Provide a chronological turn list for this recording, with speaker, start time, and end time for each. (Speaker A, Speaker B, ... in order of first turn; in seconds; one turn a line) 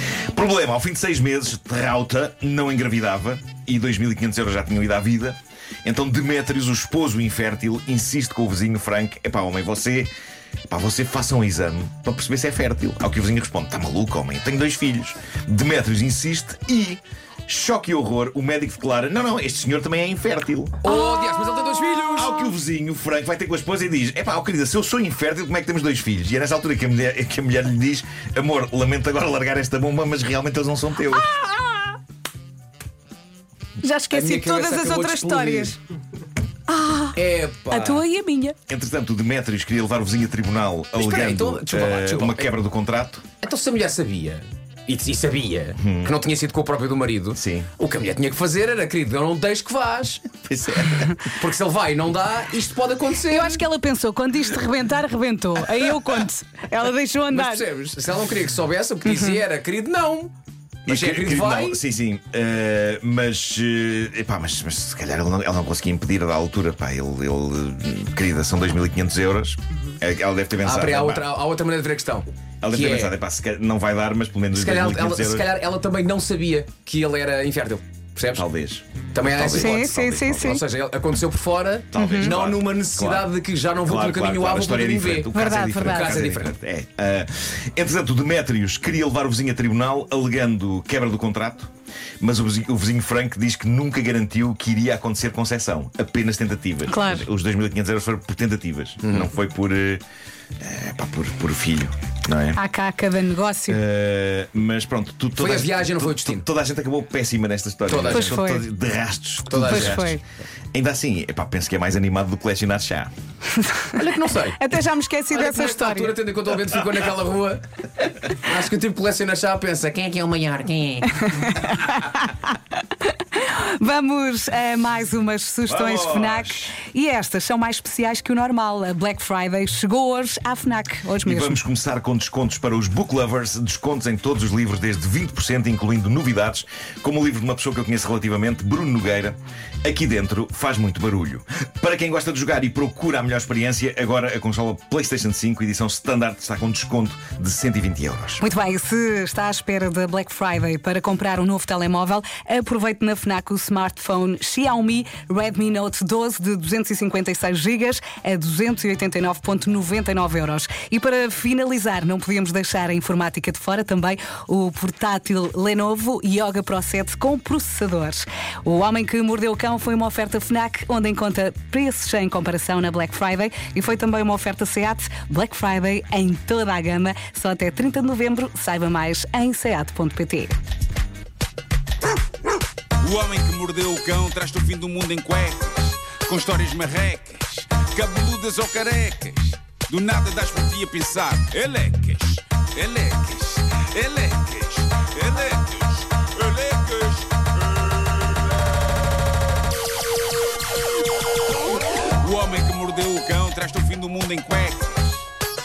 Speaker A: 0.3-10.1
Speaker A: 10.7-20.9
Speaker B: 20.8-22.5
Speaker C: 20.9-21.9
Speaker A: 22.1-31.3
Speaker C: 31.2-32.0
Speaker C: 33.8-35.8
Speaker B: 34.1-35.7
Speaker C: 36.7-38.6
Speaker B: 37.2-38.0
Speaker A: 38.7-43.3
Speaker B: 41.0-42.5
Speaker B: 43.4-53.6
Speaker A: 45.8-46.1
Speaker A: 47.4-47.7
Speaker A: 50.5-51.2
Speaker C: 53.2-57.7
Speaker B: 57.3-60.3
Speaker C: 59.1-59.4
Speaker B: 60.9-61.8
Speaker A: 60.9-71.3
Speaker B: 70.6-73.2
Speaker A: 72.6-75.5
Speaker B: 74.5-78.5
Speaker A: 78.3-80.6
Speaker B: 79.1-86.5
Speaker C: 79.5-80.6
Speaker A: 81.9-83.3
Speaker C: 82.0-82.3
Speaker A: 83.8-100.0
Speaker C: 85.3-86.2
Speaker C: 96.9-97.3
Speaker A: 100.6-102.6
Speaker C: 102.5-103.8
Speaker A: 103.7-110.2
Speaker B: 105.4-106.5
Speaker B: 107.9-108.4
Speaker C: 108.1-108.7
Speaker B: 109.5-110.2
Speaker C: 109.6-110.2
Speaker A: 110.7-113.1
Speaker B: 113.9-114.6
Speaker C: 114.5-116.2
Speaker B: 115.3-121.2
Speaker C: 121.2-122.3
Speaker C: 123.3-131.6
Speaker A: 125.7-126.8
Speaker A: 131.2-148.4
Speaker C: 148.4-180.6
Speaker D: 183.1-197.3
Speaker D: 202.3-205.1